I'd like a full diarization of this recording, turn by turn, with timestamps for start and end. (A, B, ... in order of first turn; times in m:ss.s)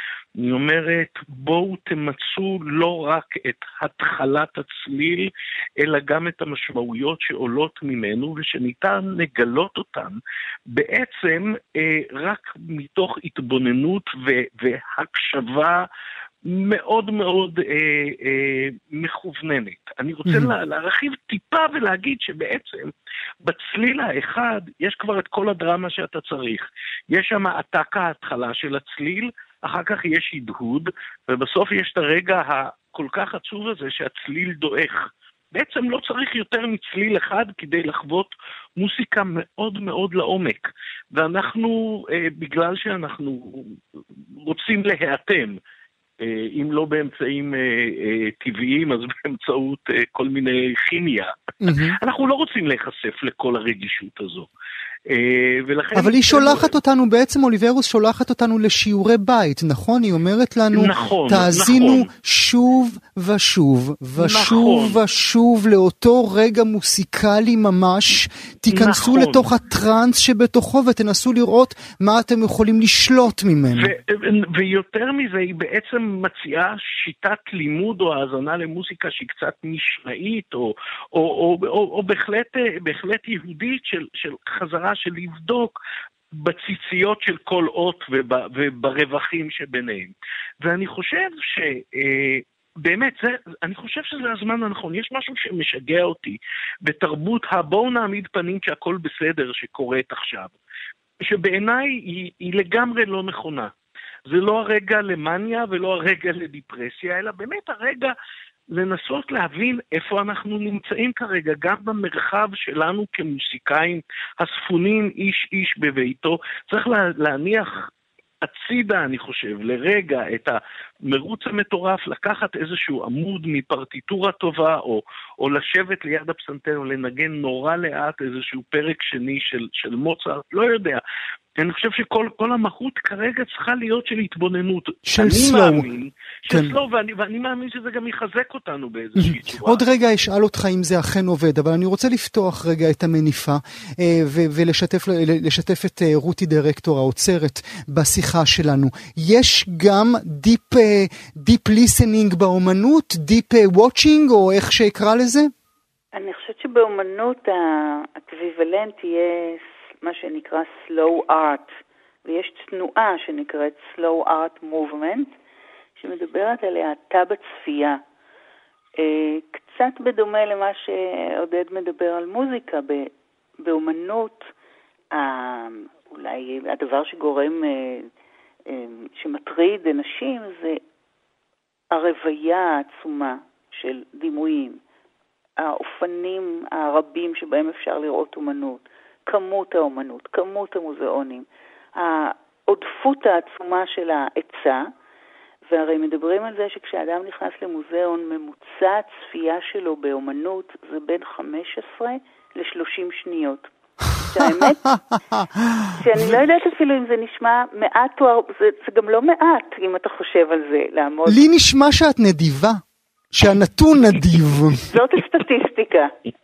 0:00.4-0:15.9 A
0:16.4-0:35.0 A
0:35.6-0:43.8 A
0:44.4-0:45.5 A
0:46.2-0:54.5 A
0:51.6-0:52.0 B
0:55.1-0:56.7 A
0:56.0-1:13.9 B
1:00.7-1:02.1 A
1:04.2-1:05.0 A
1:08.7-1:09.5 A
1:13.7-1:25.8 A
1:26.4-1:40.6 A
1:41.2-1:43.7 A
1:44.3-1:48.1 A
1:48.7-1:57.8 A
1:58.4-2:11.0 A
2:11.6-2:19.8 A
2:15.1-2:15.9 B
2:19.6-2:35.5 B
2:36.1-2:45.3 C
2:46.0-2:48.0 C
2:49.0-2:53.1 C
2:53.6-2:54.5 C
2:55.1-2:58.1 C
2:58.7-3:00.8 C
3:01.9-3:04.8 C
3:05.6-3:14.9 C
3:15.7-3:23.7 C
3:24.2-3:26.4 B
3:24.3-3:24.8 C
3:26.0-3:31.4 C
3:31.3-3:32.8 B
3:33.3-3:34.9 B
3:34.9-3:36.1 C